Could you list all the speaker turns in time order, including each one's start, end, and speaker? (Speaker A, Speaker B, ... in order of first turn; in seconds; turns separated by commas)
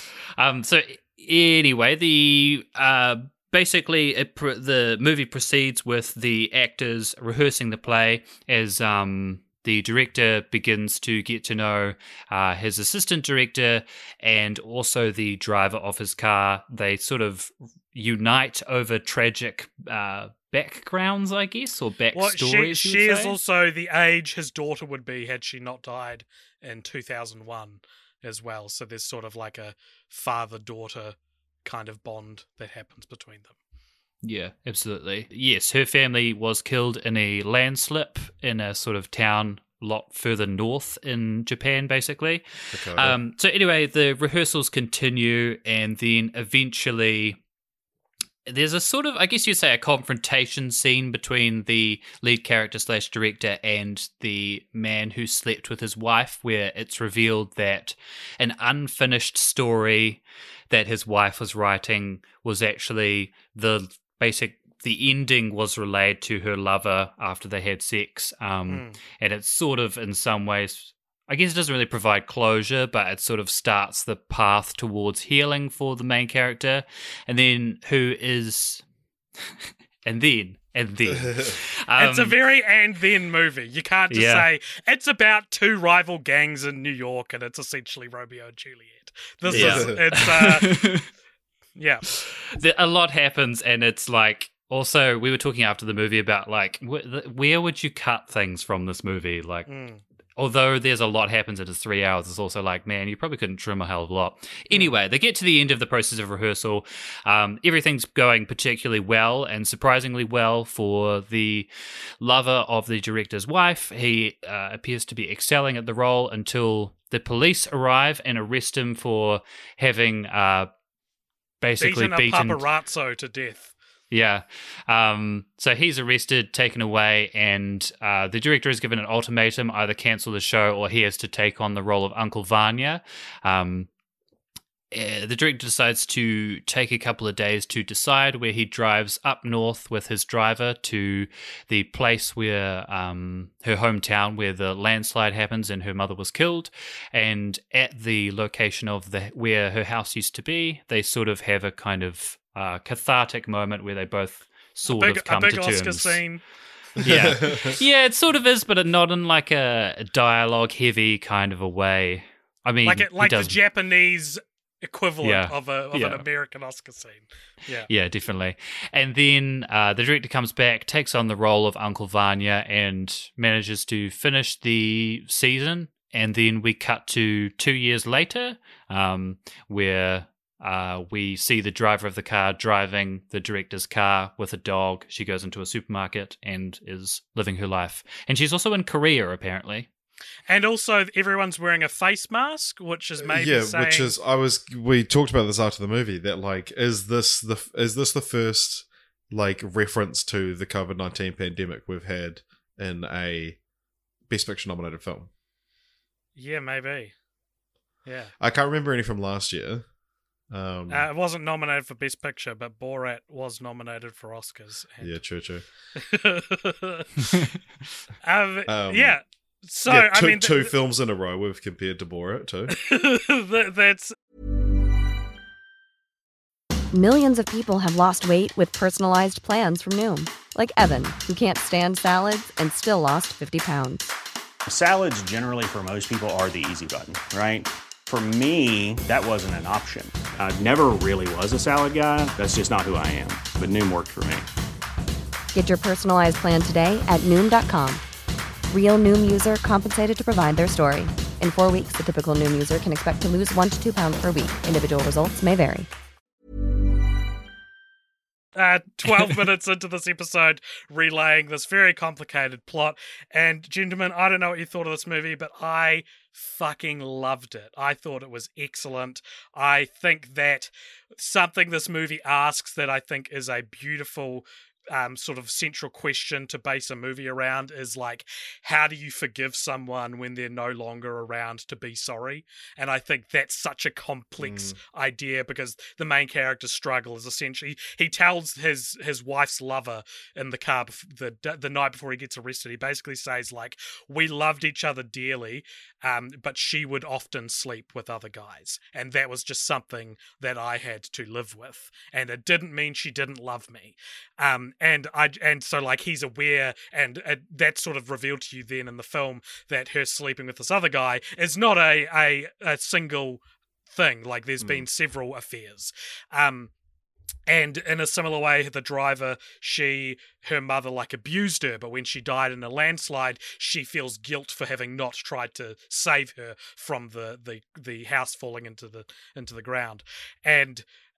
Speaker A: 0.4-23.4, Speaker B: 22.1-33.5, Speaker A: 34.2-47.4, Speaker C: 42.7-43.2, Speaker A: 48.5-78.8, Speaker B: 68.7-69.0, Speaker A: 80.0-82.4, Speaker C: 81.1-81.6, Speaker B: 82.0-90.8, Speaker A: 84.1-84.5, Speaker C: 89.5-90.0, Speaker A: 89.5-91.1, Speaker B: 91.8-92.1, Speaker A: 92.2-99.7, Speaker B: 99.7-100.0, Speaker A: 100.4-111.7, Speaker A: 112.2-120.7, Speaker A: 121.6-122.6, Speaker B: 121.8-123.7, Speaker A: 124.1-133.9, Speaker A: 134.9-156.2, Speaker B: 154.9-156.4, Speaker A: 157.0-163.6, Speaker C: 157.0-157.8, Speaker B: 162.8-167.9, Speaker A: 165.2-166.2, Speaker A: 167.9-189.9, Speaker B: 190.5-194.1, Speaker C: 193.2-203.6, Speaker C: 204.3-205.3, Speaker B: 206.4-207.1, Speaker B: 208.1-208.3, Speaker C: 208.4-209.9, Speaker C: 210.5-211.1, Speaker B: 210.9-215.2, Speaker C: 215.0-215.6, Speaker B: 216.0-217.5, Speaker B: 218.2-220.7, Speaker C: 218.7-219.2, Speaker C: 219.9-222.8, Speaker B: 222.7-224.2, Speaker D: 226.9-234.1, Speaker E: 234.7-244.5, Speaker D: 245.5-248.0, Speaker D: 248.7-255.9, Speaker B: 258.6-316.7, Speaker C: 284.4-284.8, Speaker C: 314.6-314.9, Speaker B: 317.5-330.9